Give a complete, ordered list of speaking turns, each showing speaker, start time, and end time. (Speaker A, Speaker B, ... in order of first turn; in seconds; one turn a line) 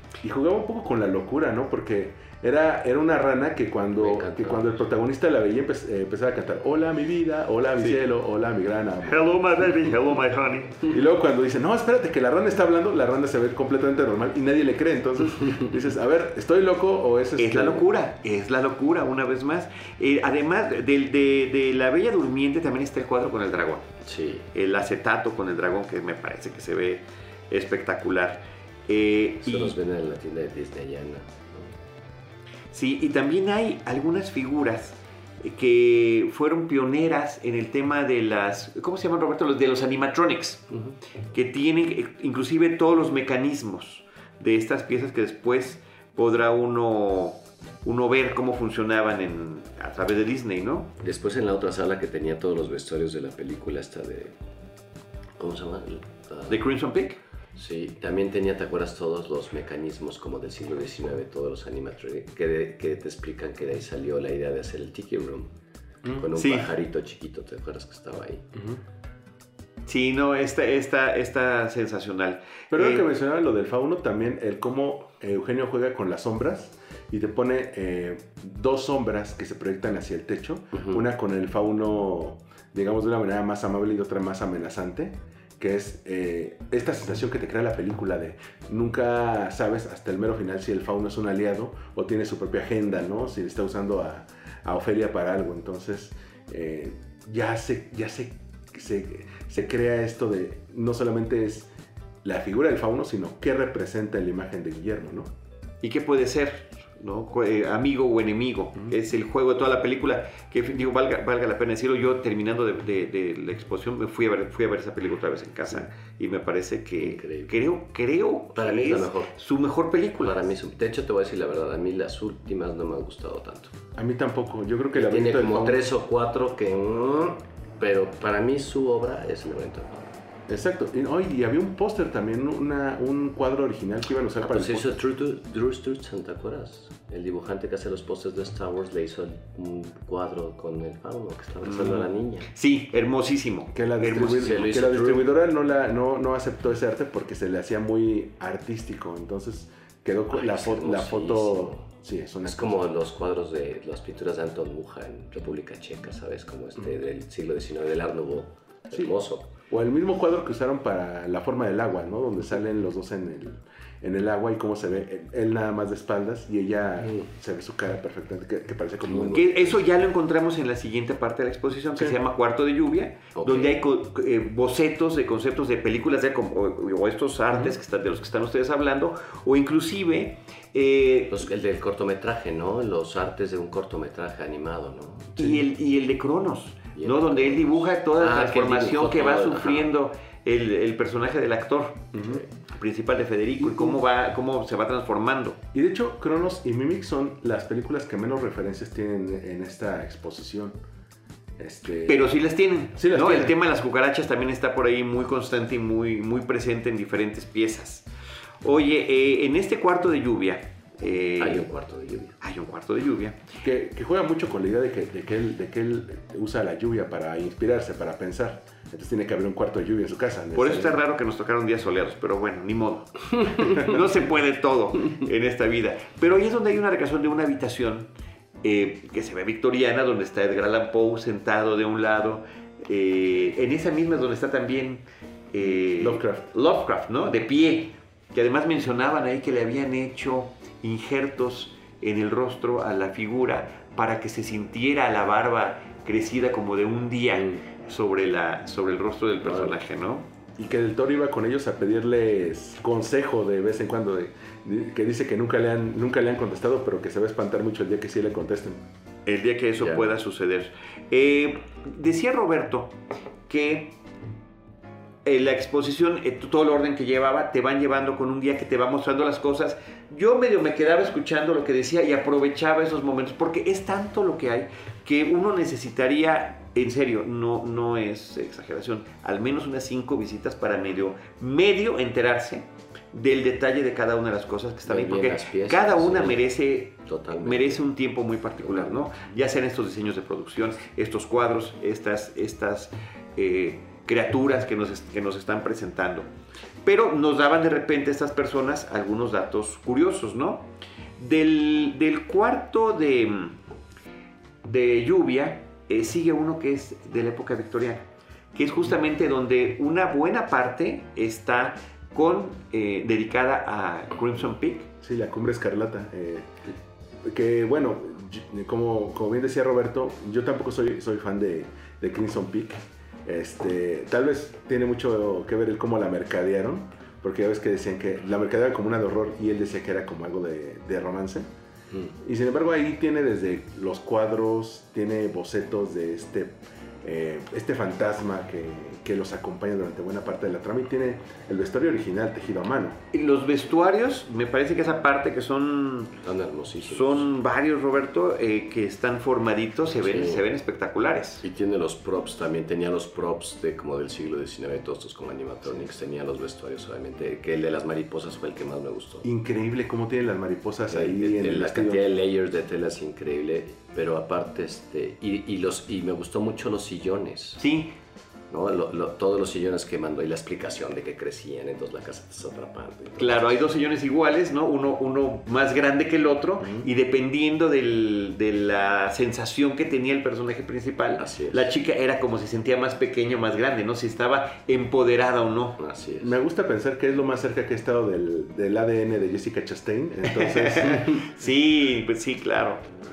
Speaker A: 0.2-9.3
Speaker B: 4.0-4.8
Speaker C: 9.0-10.9
Speaker A: 10.9-17.9
Speaker C: 17.4-23.9
Speaker B: 24.0-24.5
Speaker C: 24.5-29.8
Speaker B: 29.4-31.7
Speaker C: 32.7-40.6
Speaker B: 40.7-41.0
Speaker C: 41.3-50.9
Speaker B: 51.0-54.4
Speaker B: 55.4-56.6
Speaker C: 56.5-57.2
Speaker B: 57.5-65.5
Speaker B: 66.1-68.4
Speaker C: 66.3-66.7
Speaker A: 68.5-68.8
Speaker C: 69.9-73.0
Speaker A: 72.7-101.7
Speaker B: 80.7-81.0
Speaker A: 102.2-105.3
Speaker C: 105.8-120.4
Speaker B: 117.0-117.5
Speaker B: 118.5-119.3
Speaker B: 120.2-123.8
Speaker A: 124.0-125.8
Speaker B: 124.9-130.2
Speaker A: 130.5-134.9
Speaker B: 134.4-142.5
Speaker C: 142.5-144.6
Speaker A: 143.7-152.8
Speaker B: 144.1-145.3
Speaker B: 150.3-151.8
Speaker B: 152.4-159.5
Speaker A: 159.7-169.6
Speaker B: 169.1-169.8
Speaker C: 169.3-181.4
Speaker B: 173.3-173.8
Speaker B: 181.3-185.6
Speaker C: 185.4-192.1
Speaker B: 186.9-189.9
Speaker A: 192.1-192.4
Speaker B: 192.2-192.5
Speaker C: 192.7-195.6
Speaker A: 193.6-194.0
Speaker A: 195.7-200.8
Speaker A: 201.6-202.3
Speaker C: 202.1-208.1
Speaker A: 202.9-203.6
Speaker C: 208.6-211.7
Speaker B: 211.4-212.4
Speaker C: 212.4-213.4
Speaker A: 213.6-221.0
Speaker C: 220.5-228.1
Speaker C: 228.6-250.3
Speaker A: 236.0-236.4
Speaker B: 249.4-249.8
Speaker A: 250.6-258.8
Speaker C: 259.2-263.0
Speaker B: 259.8-260.1
Speaker C: 263.5-264.0
Speaker C: 265.2-296.3
Speaker B: 284.9-287.8
Speaker B: 288.6-289.1
Speaker C: 296.8-300.7
Speaker C: 301.2-303.6
Speaker C: 304.6-314.9
Speaker A: 315.0-316.6
Speaker A: 317.2-331.5
Speaker A: 332.2-343.0
Speaker C: 343.1-346.1
Speaker B: 346.2-347.3
Speaker C: 346.9-351.4
Speaker B: 350.0-350.4
Speaker B: 351.4-359.3
Speaker A: 359.2-362.0
Speaker B: 360.9-367.6
Speaker C: 367.6-367.9
Speaker B: 368.5-373.5
Speaker C: 373.2-385.8
Speaker A: 376.6-376.9
Speaker B: 381.2-381.7
Speaker B: 385.8-386.4
Speaker A: 386.2-391.2
Speaker C: 390.3-392.9